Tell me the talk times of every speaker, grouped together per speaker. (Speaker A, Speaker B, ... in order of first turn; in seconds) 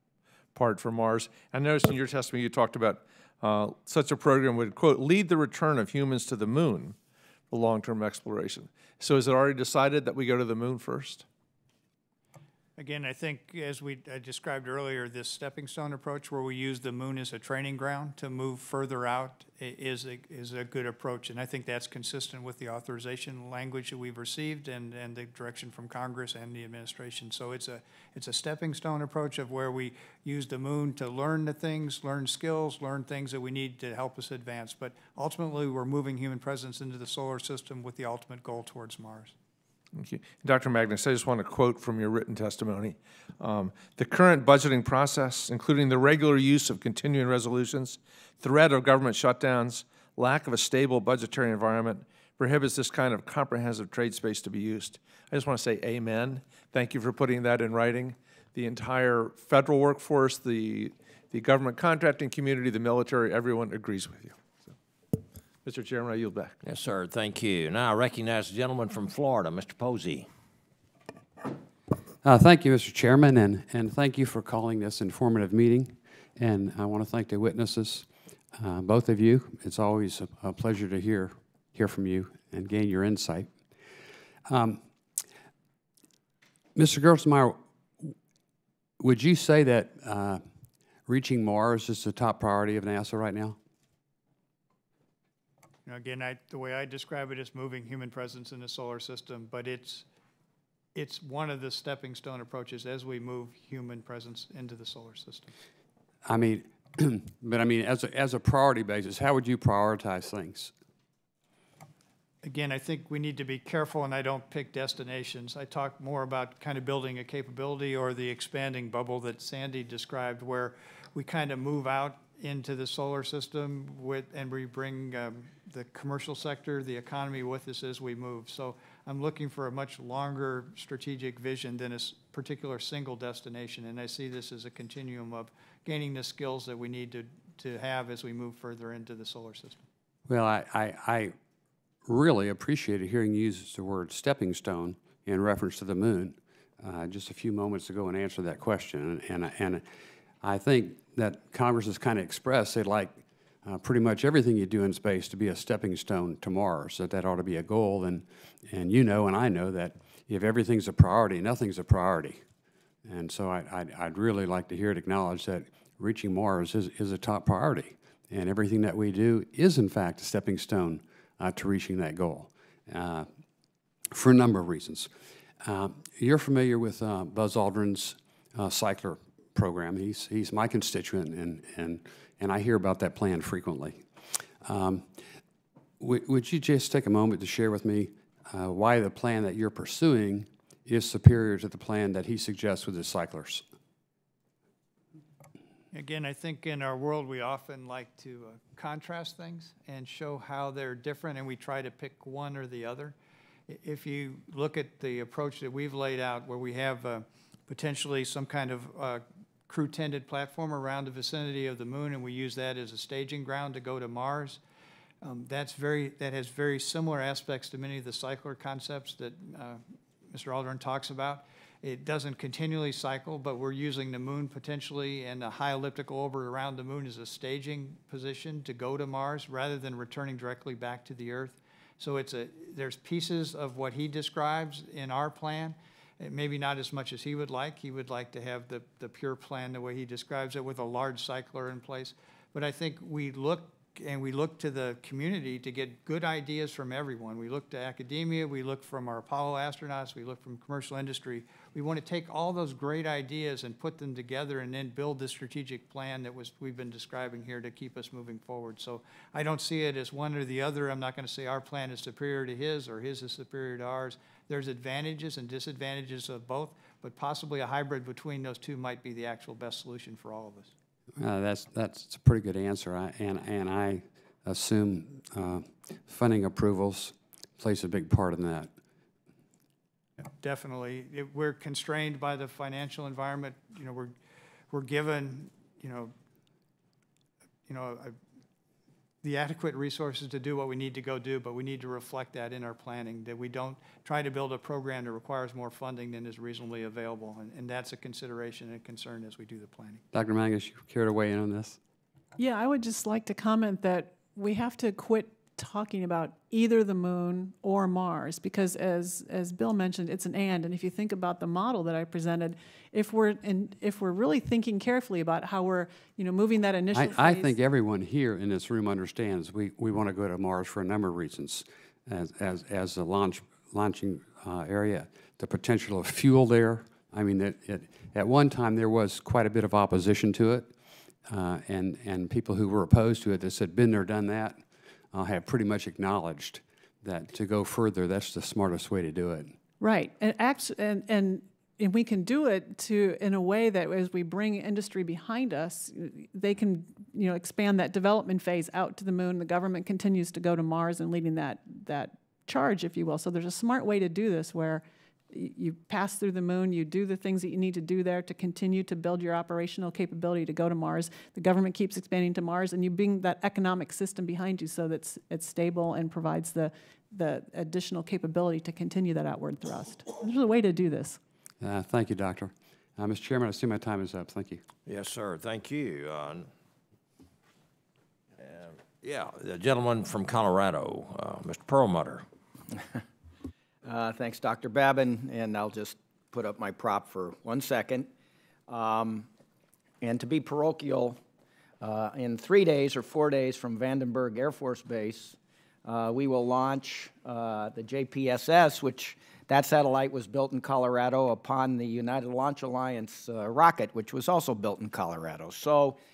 Speaker A: 0.5-7.0, 7.5-11.3, 39.9-64.4, 65.6-66.5
Speaker B: 12.8-39.3, 95.9-100.0, 100.9-105.5, 112.4-139.8, 195.9-203.1, 203.7-214.6, 215.2-270.7, 280.2-284.1, 284.7-286.1, 287.7-288.1, 289.2-300.0
Speaker C: 66.6-70.3, 374.9-376.5, 378.5-382.3
Speaker D: 72.2-83.6, 84.4-84.8, 86.7-88.2, 89.0-90.5, 91.0-93.6, 106.2-110.7, 140.3-141.4, 142.1-149.9, 150.4-162.4, 163.0-173.3, 174.1-185.2, 186.0-193.7, 271.2-278.7, 300.1-301.8, 316.9-330.7, 331.2-339.6, 371.6-374.6
Speaker E: 302.4-317.6, 339.8-371.2
Speaker F: 383.8-388.1, 388.7-389.3, 390.0-391.2, 391.8-406.0